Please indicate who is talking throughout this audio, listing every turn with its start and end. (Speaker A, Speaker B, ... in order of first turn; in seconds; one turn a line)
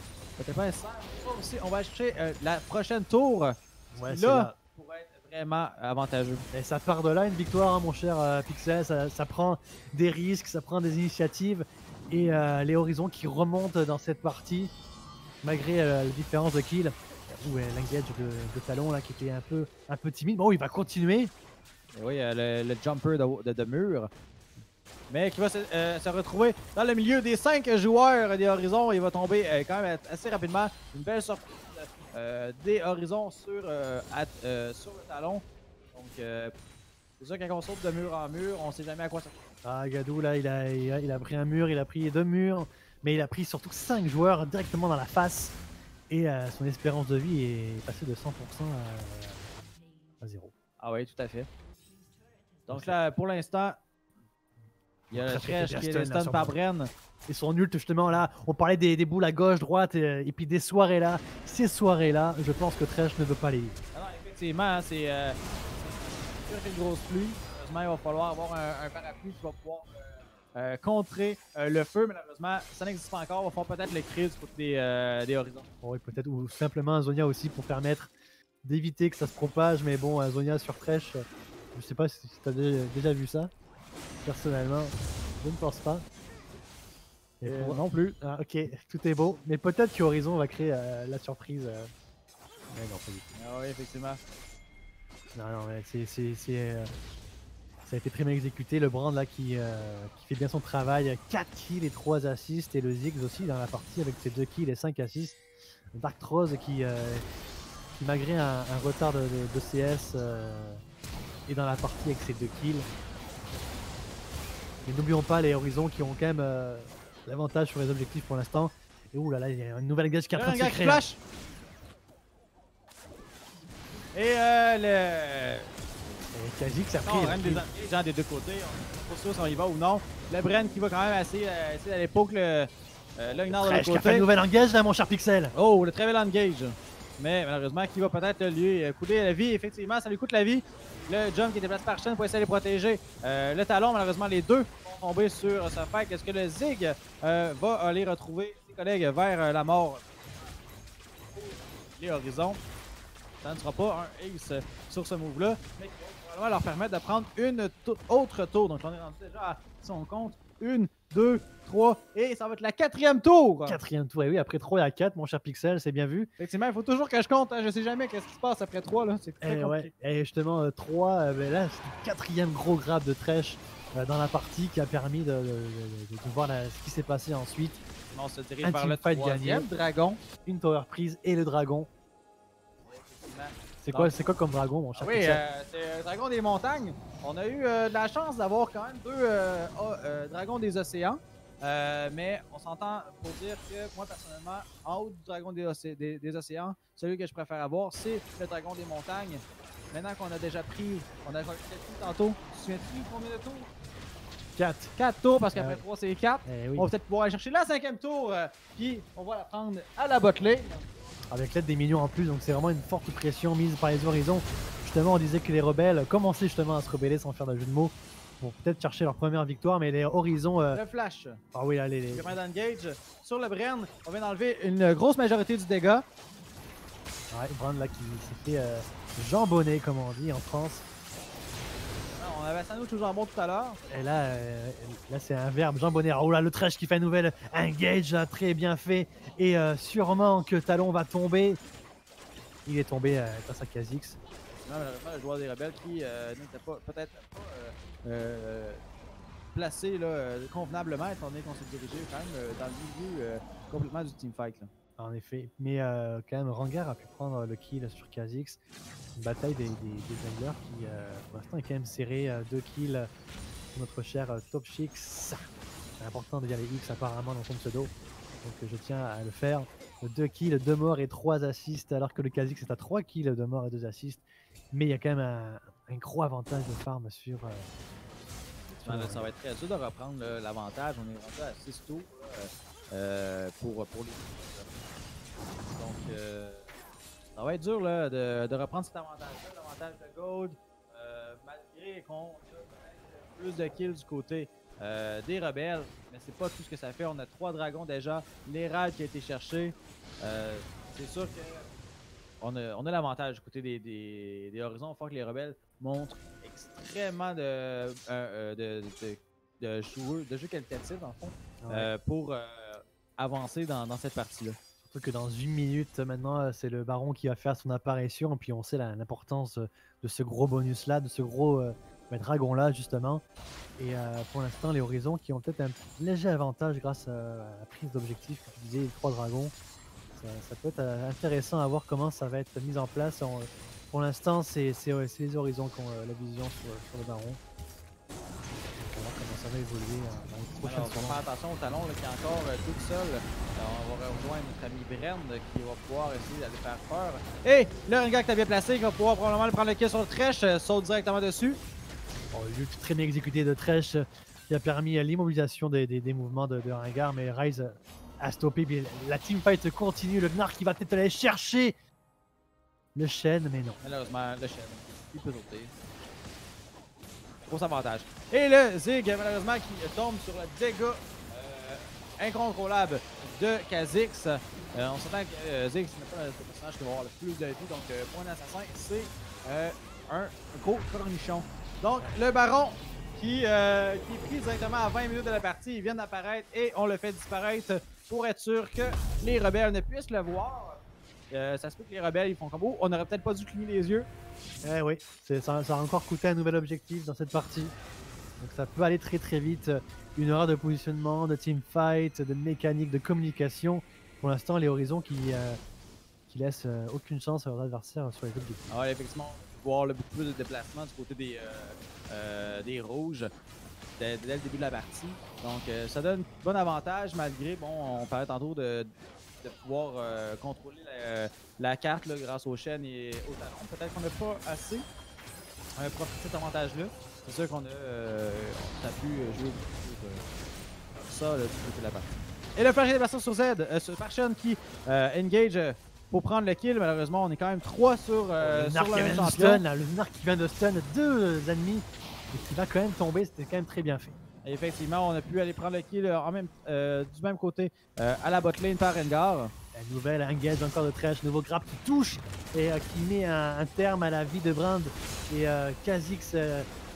Speaker A: 0.4-6.4
Speaker B: 3.9-4.5
Speaker B: 6.5-14.7
Speaker B: 15.4-21.3
Speaker A: 21.9-24.1
Speaker A: 25.1-36.5
Speaker A: 37.2-39.4
Speaker B: 39.6-45.5
Speaker B: 46.1-49.6
Speaker B: 50.2-50.5
Speaker A: 50.8-51.5
Speaker A: 52.7-53.8
Speaker B: 52.7-53.0
Speaker B: 55.1-56.5
Speaker A: 55.1-56.9
Speaker B: 57.2-63.8
Speaker A: 63.9-65.4
Speaker A: 66.4-75.7
Speaker B: 75.8-78.1
Speaker B: 78.6-83.5
Speaker B: 84.2-86.0
Speaker B: 87.4-91.9
Speaker A: 87.4-88.2
Speaker B: 92.7-93.3
Speaker A: 93.3-94.2
Speaker B: 95.3-96.9
Speaker B: 97.8-105.4
Speaker B: 105.9-107.2
Speaker B: 107.9-110.8
Speaker B: 111.5-112.9
Speaker B: 114.8-121.0
Speaker A: 120.3-121.2
Speaker A: 124.1-125.7
Speaker B: 126.3-127.6
Speaker A: 127.0-134.3
Speaker B: 133.5-135.5
Speaker A: 135.5-150.0
Speaker A: 151.3-152.6
Speaker A: 153.4-163.8
Speaker B: 163.7-166.3
Speaker A: 166.4-169.9
Speaker B: 169.4-177.8
Speaker A: 178.1-180.2
Speaker B: 178.6-179.7
Speaker B: 180.4-181.9
Speaker A: 182.8-184.1
Speaker B: 183.8-185.4
Speaker A: 184.9-203.7
Speaker B: 204.6-204.9
Speaker A: 205.0-210.9
Speaker B: 205.5-205.8
Speaker B: 206.4-206.9
Speaker B: 211.3-220.8
Speaker A: 220.7-221.4
Speaker B: 221.5-222.3
Speaker A: 222.1-226.0
Speaker B: 227.3-230.8
Speaker A: 232.1-233.8
Speaker B: 233.9-241.6
Speaker B: 242.7-244.2
Speaker A: 244.6-248.8
Speaker A: 249.5-254.7
Speaker B: 255.0-258.6
Speaker B: 259.1-263.1
Speaker B: 263.7-277.7
Speaker A: 278.7-284.7
Speaker B: 278.8-279.3
Speaker A: 285.6-286.7
Speaker A: 287.4-301.6
Speaker A: 302.4-314.6
Speaker B: 311.6-311.9
Speaker B: 314.8-323.2
Speaker B: 323.8-329.5
Speaker B: 330.1-337.4
Speaker B: 338.5-341.2
Speaker A: 340.6-351.6
Speaker B: 352.3-361.7
Speaker B: 362.9-363.8
Speaker A: 363.8-365.7
Speaker A: 367.4-394.1
Speaker B: 394.6-397.7
Speaker B: 398.4-405.6
Speaker B: 406.3-408.7
Speaker A: 408.7-413.3
Speaker A: 414.0-418.9
Speaker A: 419.4-424.9
Speaker A: 425.8-430.3
Speaker A: 431.1-439.6
Speaker B: 438.4-444.1
Speaker A: 444.4-449.5
Speaker B: 449.7-456.7